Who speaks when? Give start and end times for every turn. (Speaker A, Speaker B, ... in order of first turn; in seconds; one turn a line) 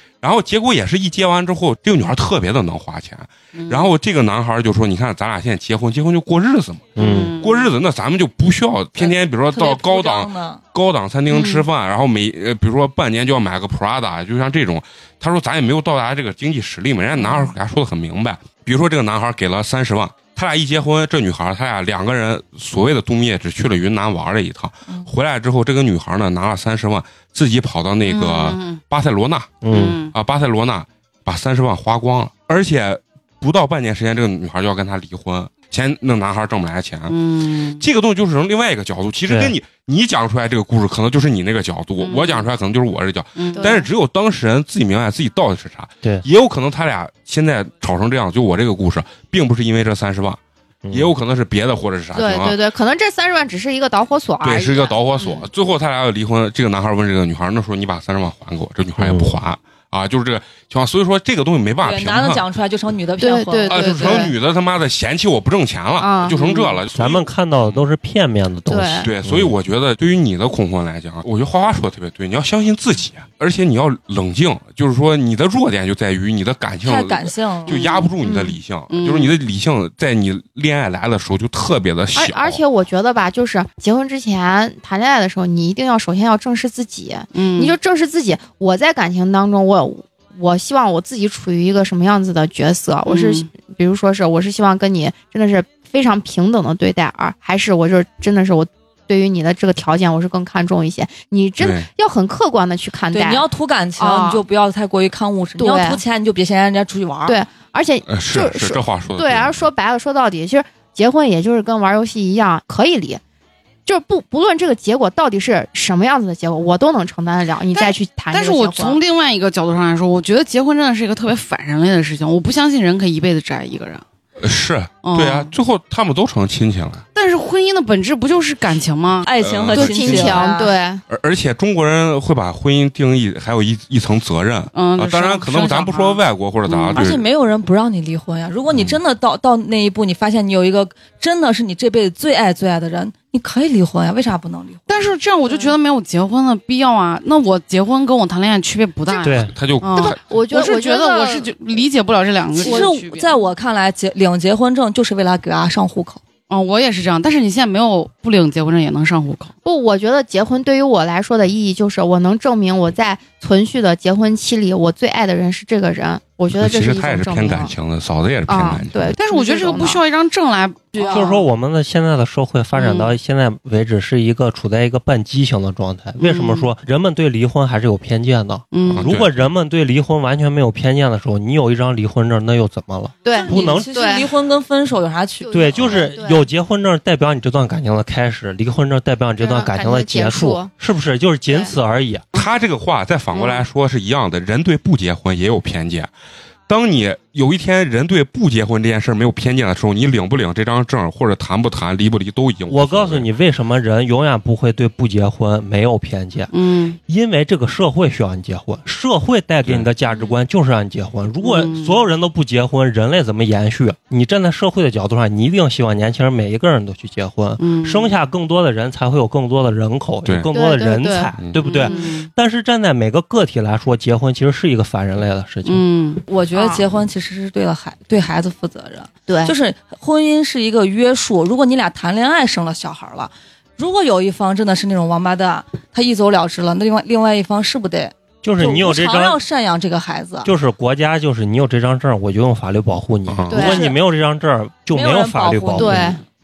Speaker A: 0.2-37.2
Speaker B: 3.5-3.9
Speaker C: 7.0-7.3
Speaker B: 7.0-7.7
Speaker D: 9.0-10.6
Speaker B: 11.3-11.7
Speaker B: 28.1-28.8
Speaker C: 29.6-30.0
Speaker B: 29.7-30.1
Speaker B: 37.1-37.9
Speaker A: 37.8-50.4
Speaker C: 39.3-39.5
Speaker B: 42.0-42.5
Speaker B: 43.4-43.7
Speaker E: 43.6-43.9
Speaker C: 50.9-51.1
Speaker A: 50.9-52.6
Speaker E: 52.1-55.5
Speaker A: 54.4-62.4
Speaker C: 59.0-59.4
Speaker D: 61.8-64.2
Speaker E: 63.2-64.3
Speaker A: 63.7-67.9
Speaker E: 66.0-66.8
Speaker C: 66.9-69.5
Speaker E: 68.7-69.1
Speaker A: 69.0-82.6
Speaker D: 76.8-77.8
Speaker B: 77.7-78.1
Speaker E: 78.2-78.6
Speaker B: 78.9-79.4
Speaker E: 82.2-103.5
Speaker B: 87.3-87.8
Speaker B: 93.1-93.5
Speaker A: 101.6-101.9
Speaker D: 103.1-107.4
Speaker E: 104.0-104.4
Speaker E: 105.6-106.0
Speaker E: 107.3-113.2
Speaker A: 108.1-109.7
Speaker E: 113.9-119.0
Speaker B: 117.7-124.0
Speaker A: 124.4-127.0
Speaker B: 125.0-125.5
Speaker B: 127.2-130.1
Speaker D: 129.2-130.8
Speaker A: 129.4-130.5
Speaker E: 129.8-131.0
Speaker A: 131.1-137.2
Speaker B: 134.7-137.1
Speaker D: 136.9-145.1
Speaker A: 138.7-139.0
Speaker B: 144.9-153.3
Speaker E: 145.5-145.8
Speaker C: 149.2-149.5
Speaker A: 149.4-150.2
Speaker E: 150.0-151.6
Speaker E: 152.6-152.9
Speaker D: 152.6-156.2
Speaker B: 156.5-159.5
Speaker E: 159.6-167.7
Speaker A: 166.5-169.2
Speaker E: 168.5-170.0
Speaker B: 169.2-171.2
Speaker D: 170.9-171.4
Speaker C: 171.1-183.9
Speaker B: 172.7-173.1
Speaker B: 176.2-176.7
Speaker B: 178.7-179.1
Speaker A: 178.9-179.5
Speaker E: 183.2-184.3
Speaker D: 183.3-185.8
Speaker E: 185.4-186.5
Speaker C: 185.5-192.2
Speaker A: 185.8-186.1
Speaker E: 189.4-190.7
Speaker E: 191.5-191.8
Speaker A: 192.3-196.1
Speaker E: 193.3-193.6
Speaker A: 196.7-203.3
Speaker C: 202.7-206.5
Speaker B: 206.5-207.0
Speaker C: 207.1-225.8
Speaker B: 211.4-212.0
Speaker B: 217.6-218.1
Speaker A: 220.2-220.5
Speaker E: 220.5-222.1
Speaker A: 221.4-221.6
Speaker B: 221.6-222.3
Speaker B: 225.7-226.2
Speaker D: 226.3-240.5
Speaker E: 226.6-226.8
Speaker E: 229.3-229.5
Speaker C: 238.4-239.4
Speaker C: 240.4-246.1
Speaker A: 243.3-243.8
Speaker E: 243.5-243.9
Speaker D: 244.9-246.1
Speaker E: 245.8-246.2